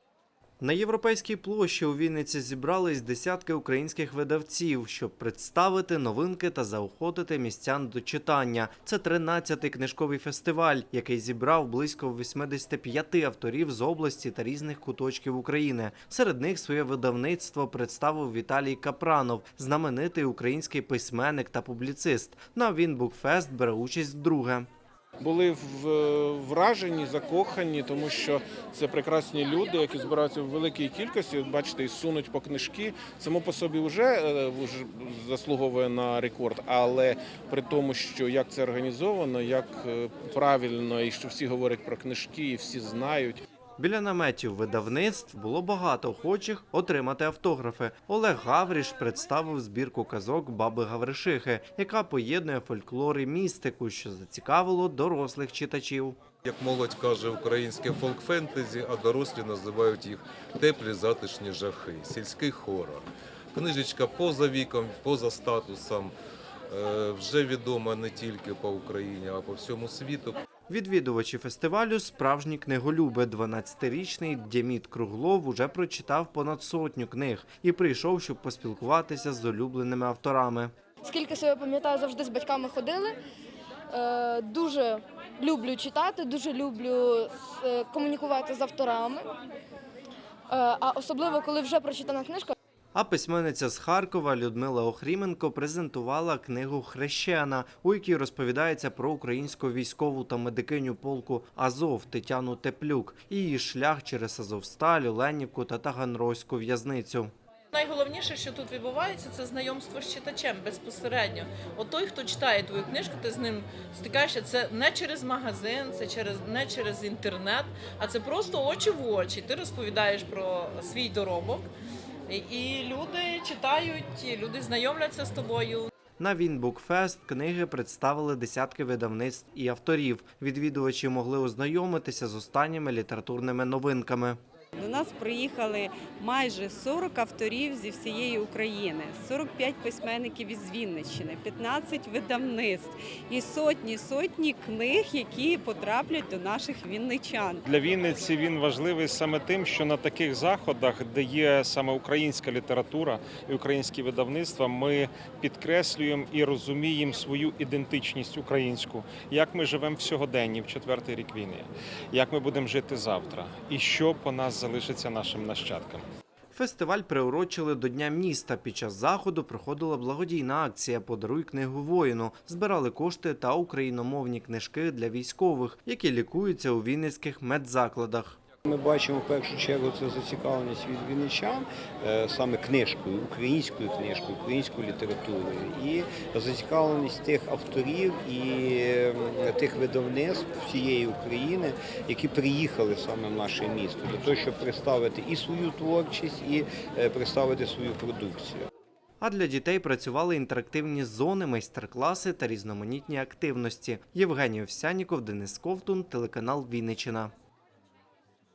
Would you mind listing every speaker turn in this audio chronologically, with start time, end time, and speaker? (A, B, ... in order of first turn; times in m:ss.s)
0:00.6-0:24.7 A
0:25.2-0:43.4 B
0:43.8-0:56.2 A
0:56.4-1:06.1 C
1:06.7-1:10.4 C
1:10.7-1:20.7 A
1:21.0-1:23.2 D
1:23.9-1:29.3 D
1:30.5-1:32.5 D
1:32.9-1:47.3 A
1:47.7-2:01.7 E
2:02.3-2:05.9 E
2:06.2-2:14.4 A
2:14.8-2:27.6 F
2:27.7-2:46.0 G
2:46.5-2:58.4 A
2:58.7-3:18.7 H
3:19.2-3:27.3 A